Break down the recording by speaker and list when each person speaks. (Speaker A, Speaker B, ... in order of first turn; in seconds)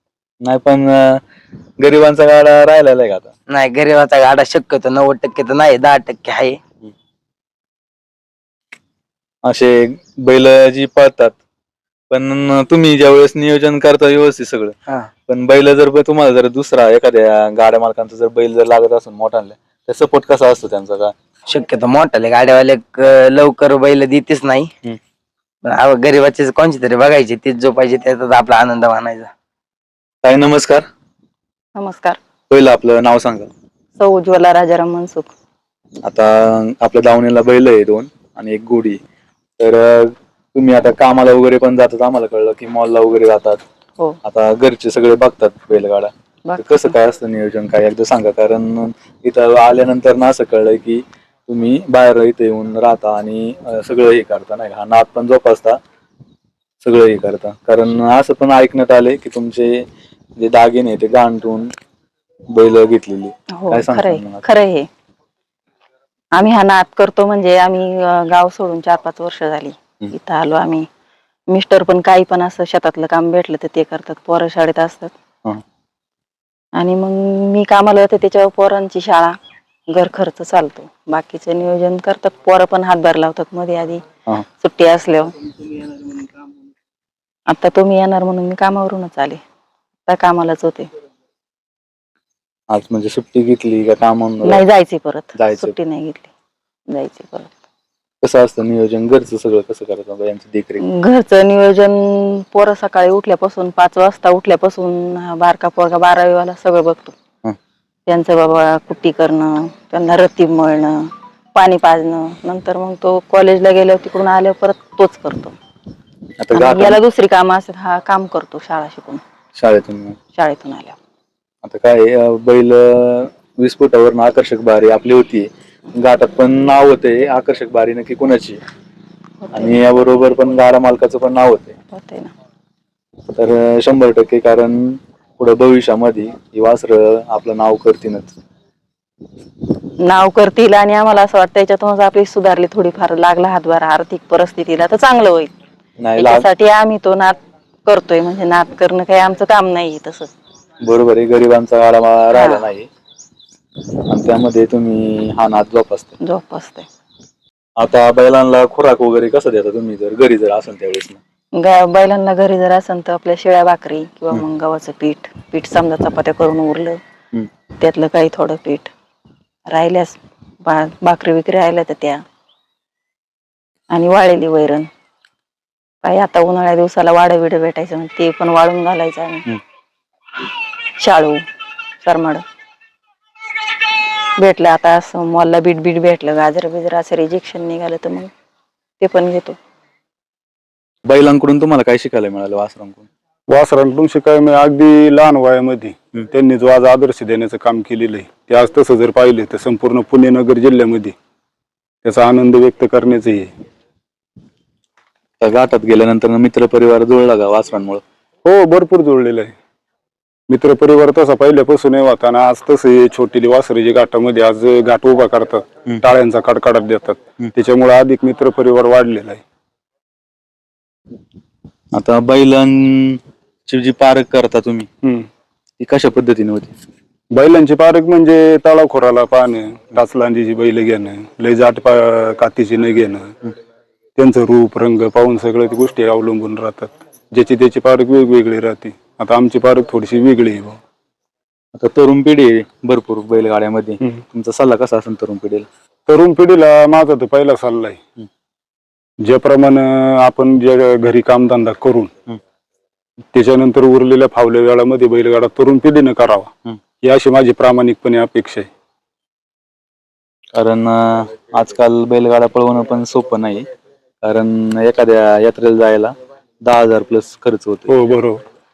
Speaker A: 0.4-1.2, 1.8-3.3, 9.4-11.3, 12.1-14.7, 15.3-21.1, 30.2-30.9, 32.5-33.5, 36.0-39.0, 39.6-43.6, 44.2-55.8, 56.8-59.8, 60.4-61.7, 62.5-64.4, 92.7-94.6, 95.3-95.8, 98.2-100.8, 116.4-117.0, 119.5-120.2, 121.6-128.6, 129.5-131.8, 133.3-138.3, 146.0-146.5, 150.8-152.9, 154.1-156.2, 157.8-161.2, 191.1-193.1, 205.4-208.0, 221.9-224.9, 225.8-226.7, 241.7-245.7, 260.5-263.7, 264.2-267.9
Speaker B: 3.5-6.6, 21.5-24.7, 25.6-29.3
Speaker C: 31.8-32.2, 34.0-35.3, 46.5-46.9, 63.5-64.9, 66.3-70.9, 71.5-75.1, 76.7-79.4, 79.9-84.0, 84.6-85.5, 87.5-89.4, 90.1-90.9, 94.4-96.3, 96.9-97.5, 100.8-107.1, 108.1-115.5, 116.5-119.2, 120.3-121.0, 129.4-129.7, 131.9-132.3, 140.0-145.5, 146.2-150.3, 152.3-152.6, 156.2-156.9, 161.6-167.0, 167.8-168.9, 169.7-172.2, 173.9-174.9, 176.0-179.5, 181.0-181.4, 182.0-182.4, 184.4-188.3, 189.0-189.6
Speaker D: 193.5-201.1, 202.0-203.5, 208.4-209.5, 210.5-219.4, 225.0-225.3, 227.3-233.3, 234.2-240.8, 246.1-248.0, 249.2-252.1, 253.3-258.7, 267.9-268.4